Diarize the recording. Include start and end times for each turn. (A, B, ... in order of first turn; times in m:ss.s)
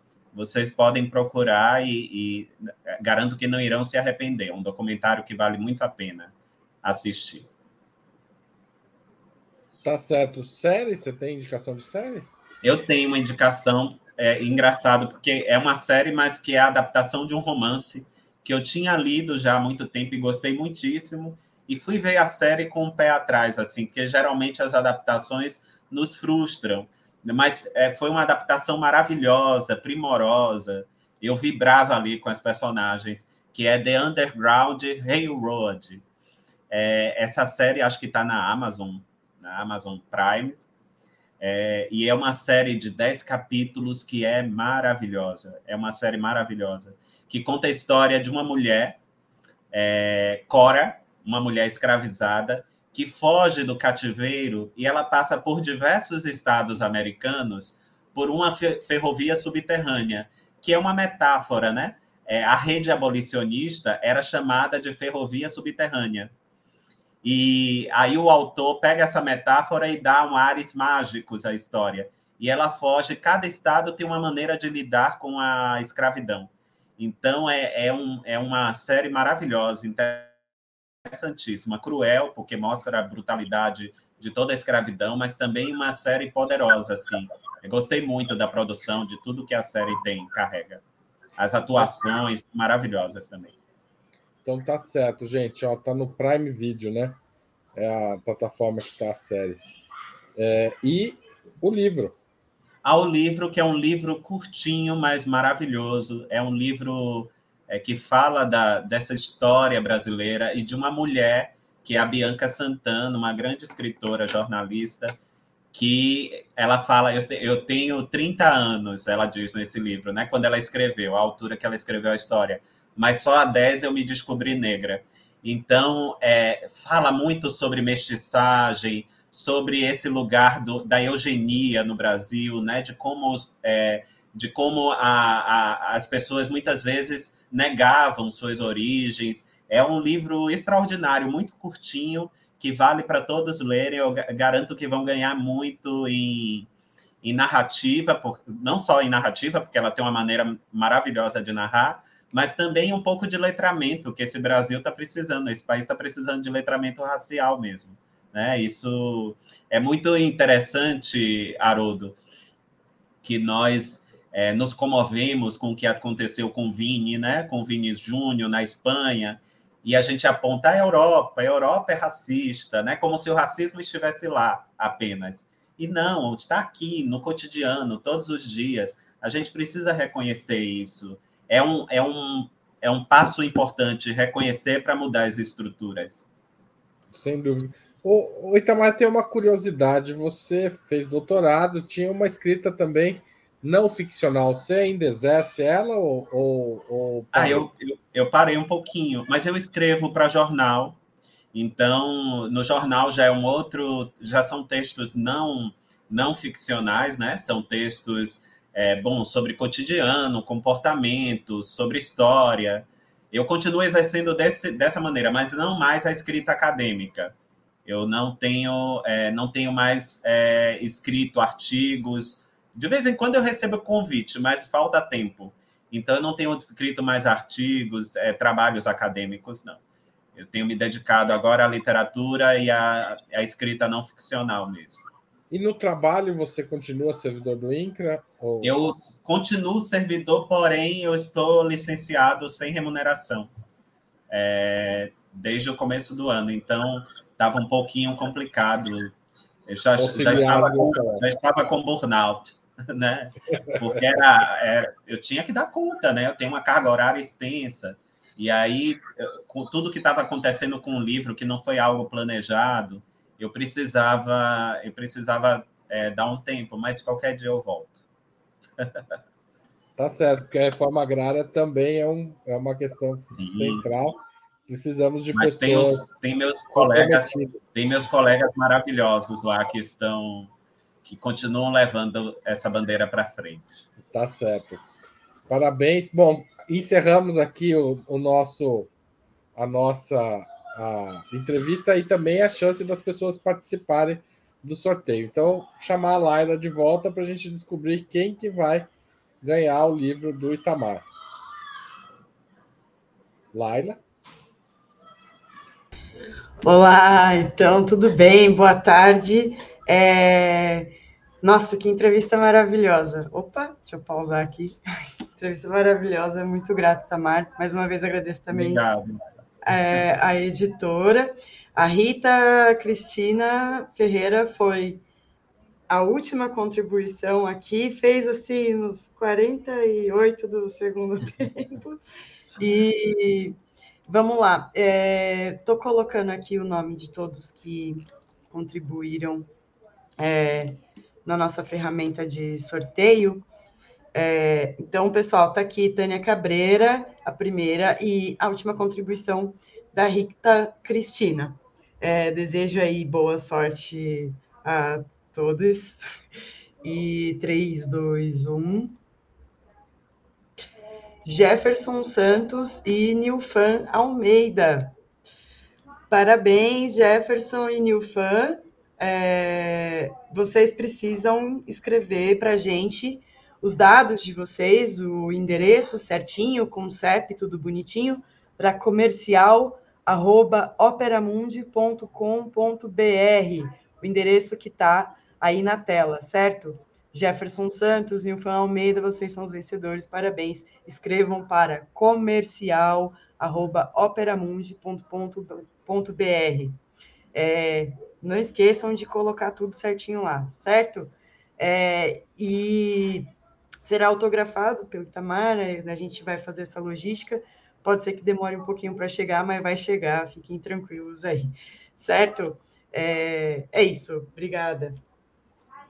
0:00.3-0:07.5 A
0:09.8-0:12.3 B
0:12.6-0:36.0 A
0:36.7-0:40.7 A
0:41.4-0:49.0 A
0:49.7-1:06.3 A
1:07.2-1:20.3 A
1:21.0-1:30.8 A
1:31.4-1:33.6 A
1:34.4-1:37.2 B
1:37.7-1:39.6 B
1:40.4-1:42.2 B
1:42.8-1:55.2 A
1:55.7-2:26.7 A
2:27.2-2:42.2 A
2:43.2-3:06.2 A
3:07.1-3:17.7 B
3:17.3-3:21.0 A
3:21.5-3:37.3 A
3:37.8-3:49.8 A
3:50.3-3:55.0 A
3:55.5-3:59.0 B
3:58.6-4:03.5 A
4:04.3-4:09.1 A
4:09.7-4:28.0 A
4:10.0-4:11.2 B
4:30.0-4:36.1 B
4:33.3-4:33.9 A
4:35.3-4:40.5 A
4:36.7-4:37.6 B
4:41.0-4:43.9 A
4:44.0-4:44.8 B
4:45.5-4:48.9 B
4:49.5-4:58.9 B
4:59.4-5:01.0 B
5:03.5-5:04.0 B
5:06.6-5:14.8 C
5:15.4-5:18.8 C
5:18.5-5:19.2 A
5:19.6-5:25.0 C
5:25.9-5:32.0 C
5:32.6-5:39.5 C
5:40.2-5:43.4 C
5:44.1-5:56.1 C
5:56.8-5:59.0 C
6:01.2-6:04.9 C
6:06.1-6:36.8 C
6:37.3-6:43.3 C
6:43.8-6:55.0 C